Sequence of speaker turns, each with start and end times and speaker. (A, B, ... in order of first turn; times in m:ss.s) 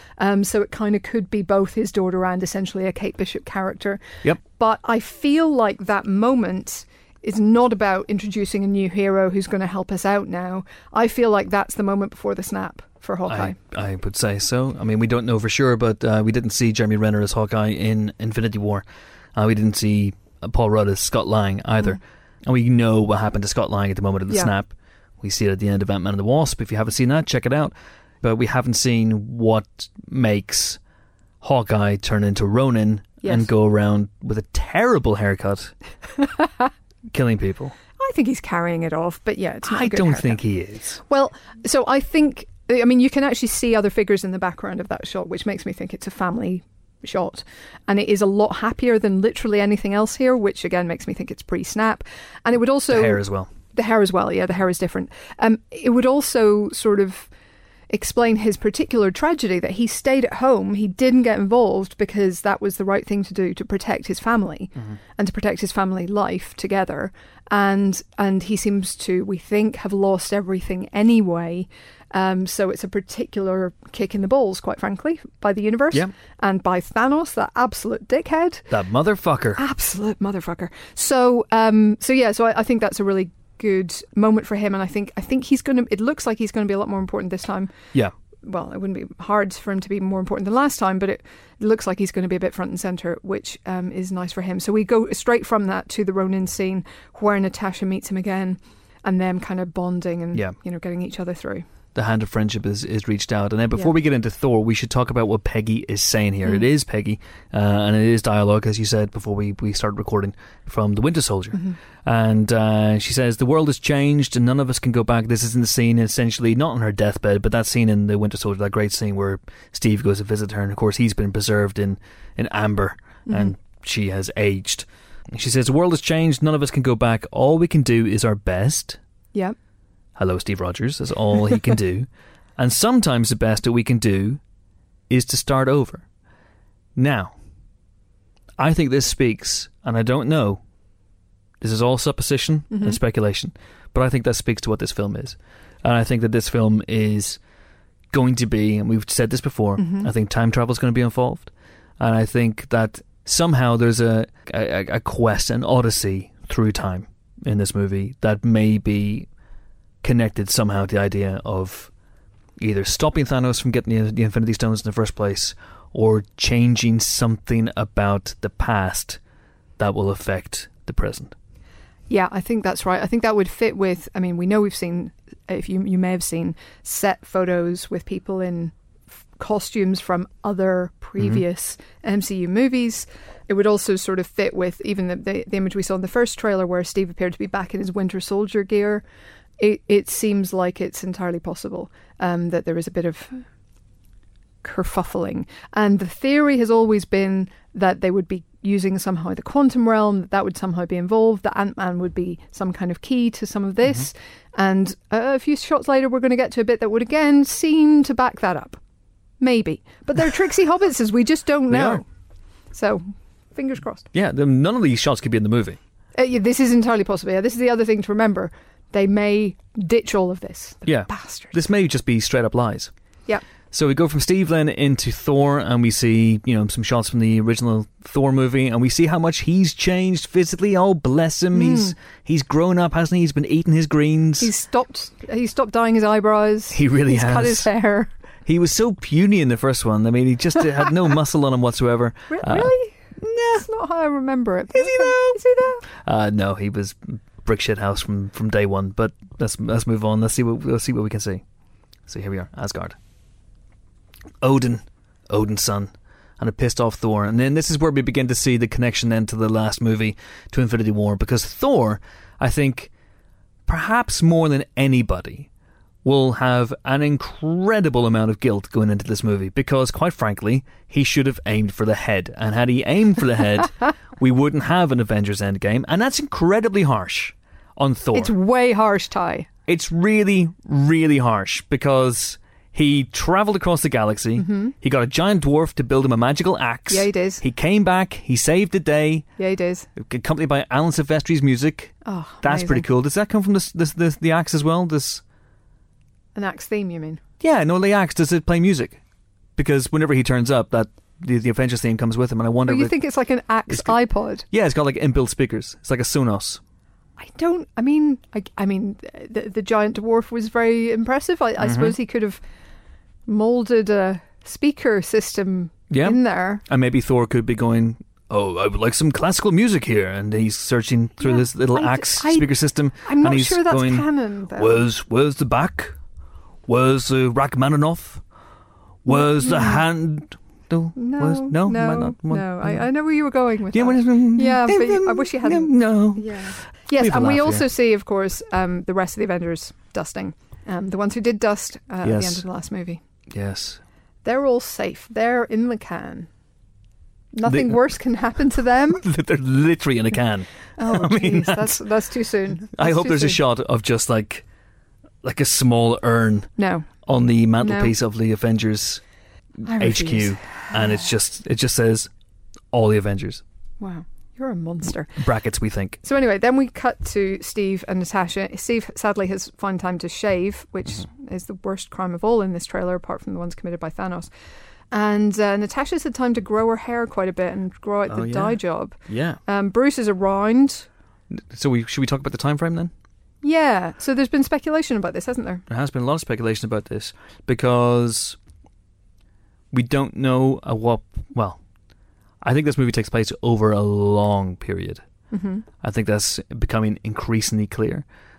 0:00.2-0:13.5 A
0:13.3-0:30.8 B
0:31.4-0:35.7 B
0:33.2-0:33.5 A
0:37.1-0:37.8 B
0:38.0-0:40.4 A
0:39.6-0:41.0 B
0:41.1-0:53.2 A
0:52.9-0:53.5 B
0:53.7-0:57.3 A
0:57.9-1:18.7 A
1:18.7-1:19.6 B
1:19.6-1:27.7 A
1:28.4-1:41.6 A
1:41.9-2:09.0 B
2:03.3-2:03.5 A
2:10.2-2:14.4 B
2:15.1-2:16.0 B
2:17.0-2:17.3 B
2:18.6-2:20.6 B
2:21.6-2:27.4 B
2:22.7-2:23.0 A
2:28.1-2:39.3 B
2:29.8-2:30.1 A
2:40.0-2:41.9 B
2:42.6-2:49.2 B
2:49.8-2:51.3 B
2:52.1-2:58.7 A
2:59.4-3:09.0 A
3:09.6-3:13.4 A
3:14.6-3:28.8 A
3:29.4-3:32.0 A
3:31.7-3:32.0 B
3:32.7-3:33.0 A
3:33.5-3:34.0 A
3:34.1-3:35.8 B
3:36.1-3:41.5 A
3:40.8-3:42.9 B
3:43.7-3:54.5 B
3:51.5-3:51.9 A
3:54.4-3:58.1 A
3:56.7-3:57.7 B
3:58.4-4:02.7 B
4:02.3-4:05.8 A
4:04.7-4:05.4 B
4:06.0-4:11.4 B
4:12.1-4:13.0 B
4:14.4-4:22.9 B
4:23.7-4:25.5 B
4:26.0-4:38.3 B
4:38.1-4:39.5 A
4:39.7-4:49.2 B
4:44.4-4:44.7 A
4:46.9-4:47.4 A
4:49.4-4:49.9 A
4:50.0-4:55.2 B
4:52.0-4:52.8 A
4:56.3-4:57.2 A
4:57.4-4:59.0 B
4:59.6-5:02.9 B
5:02.7-5:04.4 A
5:03.7-5:04.0 B
5:04.5-5:06.6 B
5:07.2-5:12.4 A
5:11.6-5:11.9 B
5:13.3-5:16.6 A
5:15.9-5:26.0 B
5:21.2-5:22.5 A
5:23.0-5:24.8 A
5:26.7-5:28.2 B
5:29.0-5:32.8 B
5:29.4-5:29.8 A
5:31.0-5:43.0 A
5:33.7-5:36.4 B
5:37.0-5:37.6 B
5:42.0-5:42.4 B
5:43.3-5:43.8 B
5:44.2-5:46.3 A
5:47.3-5:49.0 A
5:47.4-5:47.8 B
5:48.9-5:51.8 B
5:50.8-5:53.4 A
5:52.7-5:54.4 B
5:55.2-5:56.5 B
5:56.6-5:56.9 A
5:57.0-5:59.0 B
5:57.6-5:57.9 A
5:59.6-6:02.1 B
5:59.6-6:01.0 A
6:02.7-6:03.4 B
6:03.8-6:05.1 A
6:05.2-6:06.0 B
6:06.0-6:14.3 A
6:14.9-6:20.9 A
6:18.1-6:18.6 B
6:19.1-6:19.4 B
6:21.3-6:22.9 B
6:23.4-6:25.6 A
6:25.7-6:28.4 B
6:29.7-6:31.6 B
6:32.4-6:35.0 B
6:35.3-6:35.6 A
6:35.8-6:38.0 B